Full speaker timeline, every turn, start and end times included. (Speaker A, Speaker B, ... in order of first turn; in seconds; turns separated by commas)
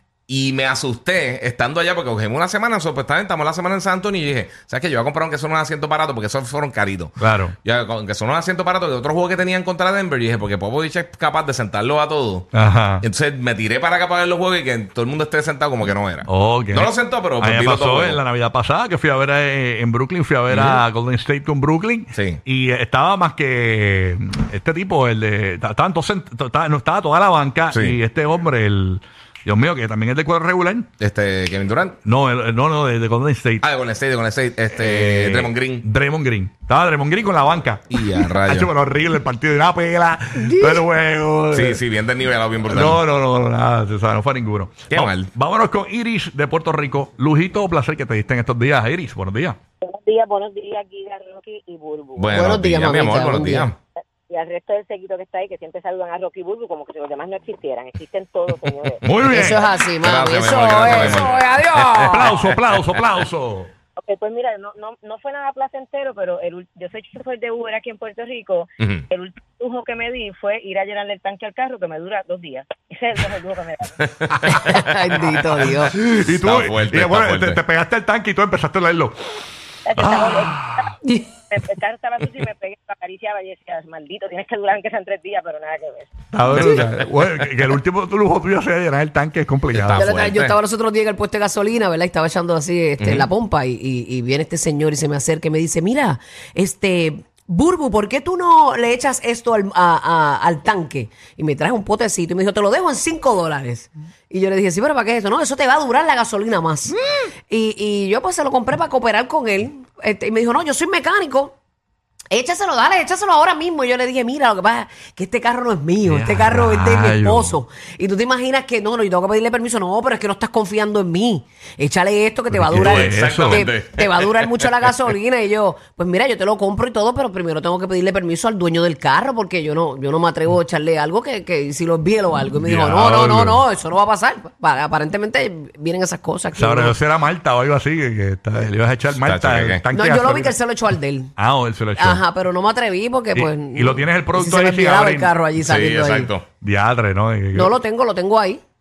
Speaker A: 0.3-12.5, Speaker B: 7.2-7.5, Speaker B: 12.5-13.1, Speaker A: 13.0-18.2, Speaker B: 16.2-30.9, Speaker A: 20.5-20.8, Speaker A: 22.1-22.4, Speaker A: 27.7-28.0, Speaker A: 31.0-32.0, Speaker B: 32.0-33.6, Speaker A: 33.6-35.9, Speaker B: 34.8-41.8, Speaker A: 37.9-38.7, Speaker C: 40.4-40.8, Speaker A: 41.5-43.0, Speaker B: 42.7-49.6, Speaker A: 44.9-45.3, Speaker D: 49.9-52.2, Speaker A: 52.1-53.8, Speaker C: 52.3-53.7, Speaker D: 54.3-59.0, Speaker B: 59.0-59.7, Speaker C: 59.3-62.4, Speaker A: 60.0-61.5, Speaker B: 60.9-61.2, Speaker B: 61.9-63.7, Speaker D: 64.1-73.8, Speaker A: 68.8-69.0, Speaker A: 74.1-74.8, Speaker C: 74.5-75.9, Speaker B: 75.9-79.2, Speaker A: 76.3-77.6, Speaker D: 79.9-80.5, Speaker B: 79.9-80.9, Speaker C: 81.0-81.3, Speaker D: 81.5-86.0, Speaker B: 86.3-90.1, Speaker C: 86.5-86.8, Speaker A: 89.7-90.5, Speaker C: 89.9-106.9, Speaker A: 93.0-93.3, Speaker C: 107.5-111.5, Speaker C: 112.3-137.0, Speaker B: 116.0-117.5, Speaker B: 122.5-123.7, Speaker A: 122.8-124.5, Speaker B: 132.5-133.6, Speaker B: 136.5-140.8, Speaker A: 139.1-139.8, Speaker C: 139.9-141.3, Speaker B: 141.3-142.2, Speaker C: 142.0-146.3, Speaker B: 143.3-145.3, Speaker A: 145.6-146.4, Speaker B: 146.6-147.7, Speaker C: 147.5-148.6